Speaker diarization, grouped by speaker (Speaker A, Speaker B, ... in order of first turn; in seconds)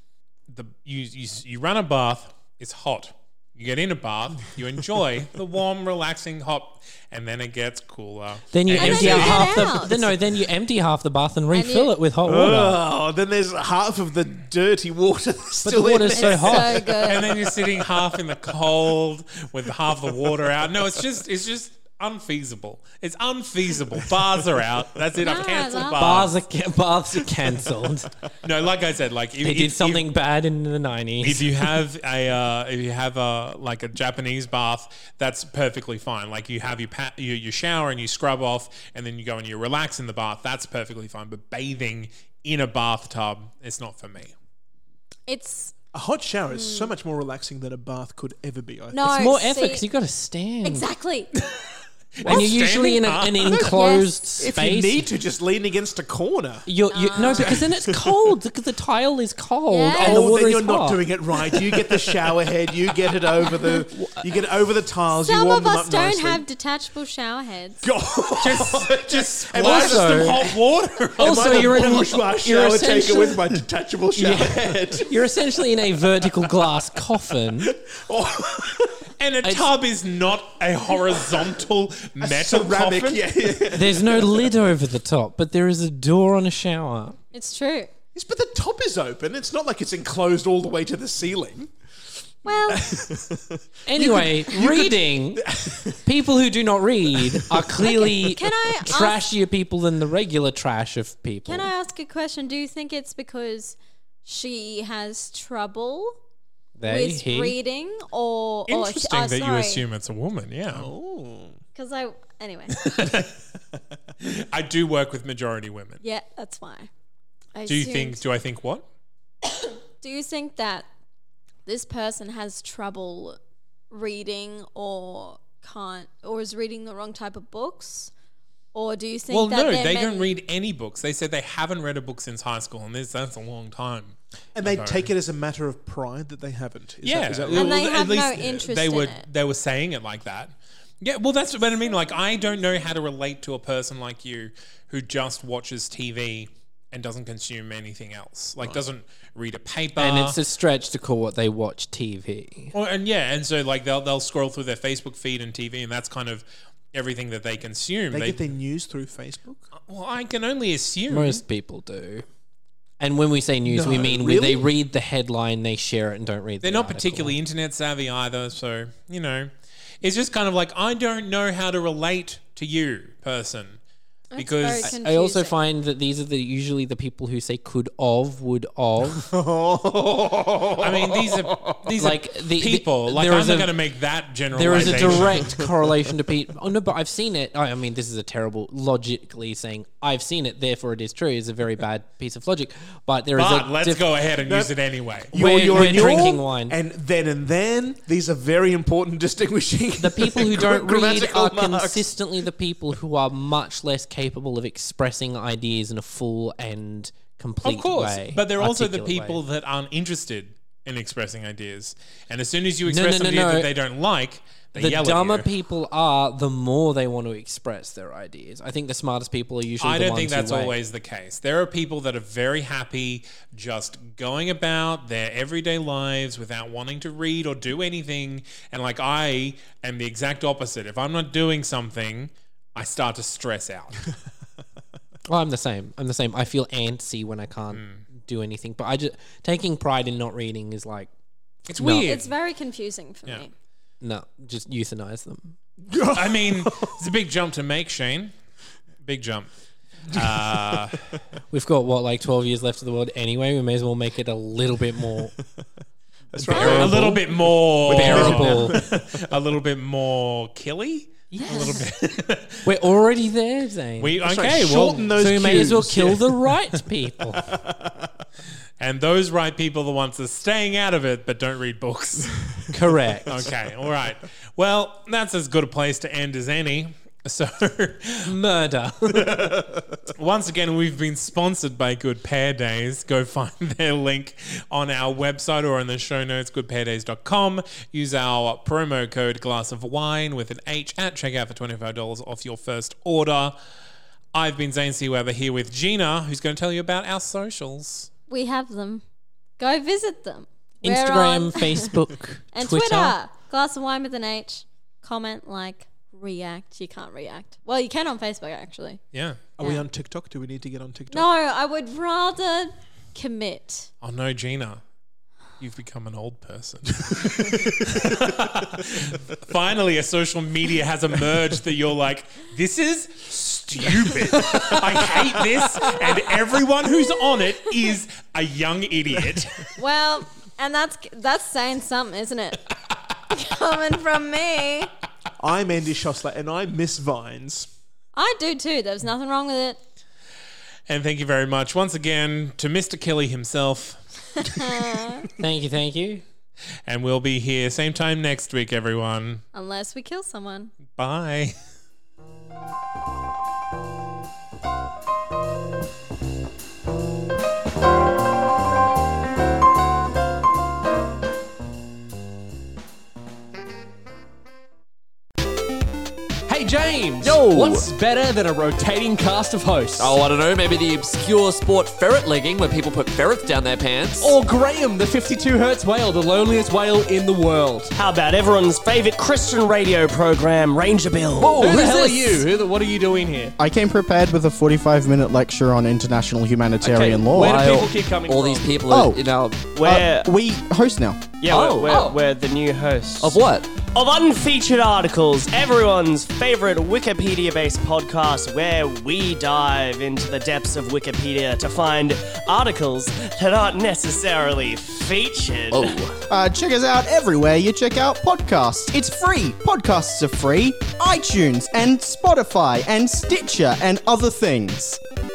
Speaker A: 0.5-9.7, 17.0-26.3, 28.4-30.1, 31.2-44.3, 52.2-53.6, 68.4-71.8, 79.2-83.6, 108.7-110.9, 112.8-113.3, 114.2-116.0, 117.7-118.9, 129.3-135.1, 137.0-150.4, 152.7-158.5, 159.8-161.4, 166.6-169.5, 170.0-173.8, 174.4-174.9, 180.8-185.6, 193.3-196.1, 207.6-215.5, 219.8-234.1, 237.7-238.0, 241.7-242.3, 246.1-248.3, 249.1-249.5, 250.1-251.2, 256.5-262.6, 264.0-265.1, 268.8-272.7, 273.3-278.3, 280.1-293.6, 294.3-298.1, 309.1-309.4, 314.0-314.8, 315.6-329.7, 340.9-344.0, 346.9-349.4, 350.9-351.6
Speaker B: 8.5-12.8, 15.6-16.9, 26.0-28.1, 29.4-31.5, 49.0-50.9, 52.3-55.0, 56.6-61.1, 69.6-70.4, 71.2-73.6, 74.1-77.7, 79.4-79.7, 83.7-87.2, 93.9-101.7, 106.8-107.6, 150.0-152.7, 161.1-162.2, 163.0-167.4, 174.8-179.3, 182.0-183.8, 184.5-194.1, 195.3-196.8, 200.0-209.4, 212.9-213.7, 214.8-220.8, 235.3-241.1, 241.8-242.1, 244.0-245.6, 251.5-255.3, 256.3-258.8, 261.3-261.9, 262.6-264.2, 265.2-267.5, 272.7-273.5, 278.2-279.7, 300.8-303.1, 345.4-346.2
Speaker C: 8.7-10.1, 11.5-11.9, 16.1-17.4, 25.2-26.3, 45.3-45.8, 46.5-46.9, 48.9-49.9, 50.6-51.3, 53.6-54.1, 56.9-57.6, 59.7-60.3, 65.2-67.9, 87.3-87.9, 92.5-93.0, 97.8-99.3, 101.5-106.2, 106.8-109.8, 111.8-113.1, 116.0-116.9, 117.5-118.2, 120.0-120.9, 121.7-123.4, 123.9-128.1, 128.7-130.4, 137.5-139.2, 174.3-175.6, 242.1-243.5, 256.5-256.9, 261.4-261.9, 298.3-299.0, 299.6-301.9, 302.5-309.0, 311.1-313.9, 329.8-332.6, 333.3-334.9, 338.1-339.8, 344.4-345.3, 349.5-350.7
Speaker D: 12.2-18.2, 27.6-27.9, 45.9-49.2, 52.2-52.6, 54.4-56.6, 57.2-58.2, 59.9-66.4, 67.8-75.1, 76.4-76.7, 77.6-79.1, 81.2-81.5, 82.2-84.5, 88.1-91.7, 92.4-96.0, 97.1-98.1, 110.7-111.6, 134.6-138.5, 158.1-159.7, 163.7-164.7, 179.0-181.8, 184.7-185.4, 194.4-194.7, 195.3-202.2, 245.8-247.0, 250.1-251.0, 256.3-259.2, 264.2-266.5, 267.4-268.1, 309.6-311.3, 317.1-318.4, 324.3-324.9, 335.4-337.7
Speaker E: 366.5-370.2, 374.2-378.0, 381.4-383.6, 387.4-387.7, 391.9-392.1
Speaker F: 367.2-367.9, 370.0-374.3, 381.4-382.4, 387.1-389.6, 391.5-392.1, 393.2-393.7, 405.7-406.1
Speaker G: 378.0-381.8, 386.8-388.7, 389.7-390.3, 391.4-393.4, 393.9-406.1
Speaker H: 383.6-387.7, 388.9-389.2, 389.8-391.4, 406.3-415.0